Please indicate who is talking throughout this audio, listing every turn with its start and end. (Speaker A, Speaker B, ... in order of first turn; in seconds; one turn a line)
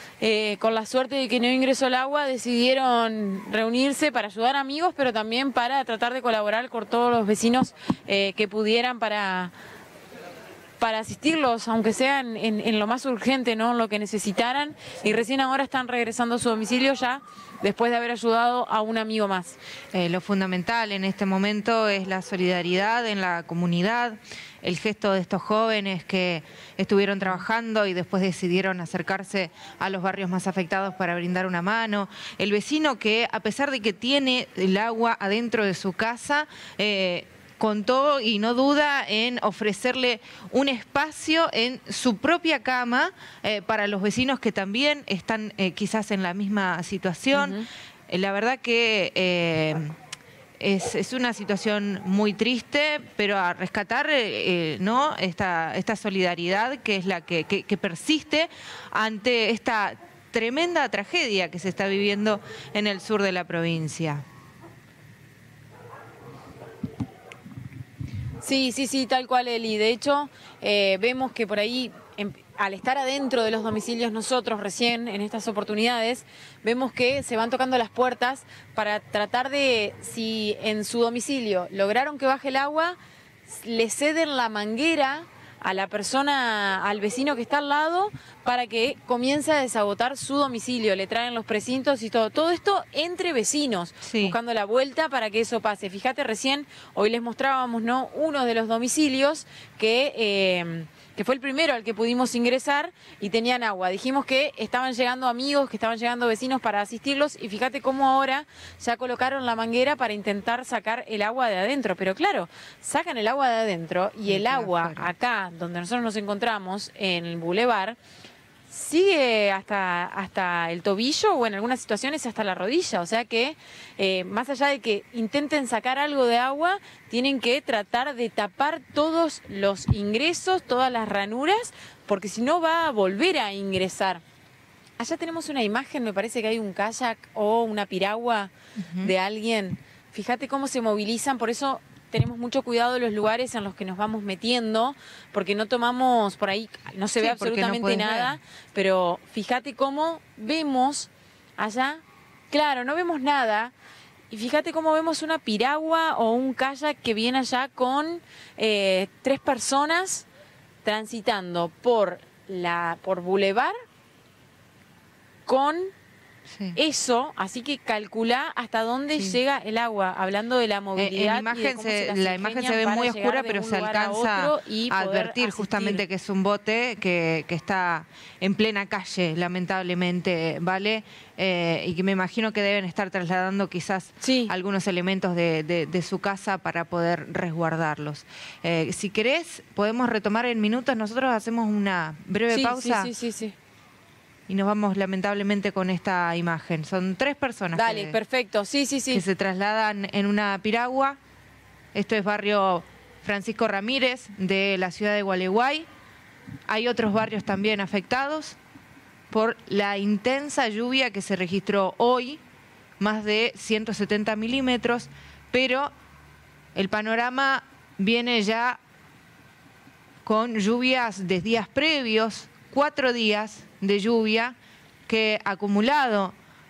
Speaker A: 0.2-9.5
Speaker A: 10.8-19.6
Speaker B: 19.9-49.9
Speaker A: 47.4-47.7
Speaker B: 50.6-64.2
Speaker A: 68.4-118.0
Speaker B: 94.0-94.4
Speaker B: 114.3-115.1
Speaker A: 118.7-134.2
Speaker A: 135.0-153.7
Speaker B: 138.8-139.1
Speaker B: 147.2-148.4
Speaker A: 154.3-160.3
Speaker A: 160.8-163.7
Speaker A: 165.5-165.9
Speaker B: 166.5-166.8
Speaker A: 166.8-176.0
Speaker B: 169.1-169.4
Speaker B: 171.0-193.1
Speaker A: 184.2-184.5
Speaker A: 192.5-193.6
Speaker B: 194.5-198.2
Speaker A: 197.7-199.2
Speaker B: 199.1-201.2
Speaker B: 201.9-205.9
Speaker B: 206.7-208.6
Speaker B: 209.3-212.4
Speaker B: 213.0-215.9
Speaker B: 216.8-218.8
Speaker B: 220.2-224.6
Speaker B: 225.1-226.3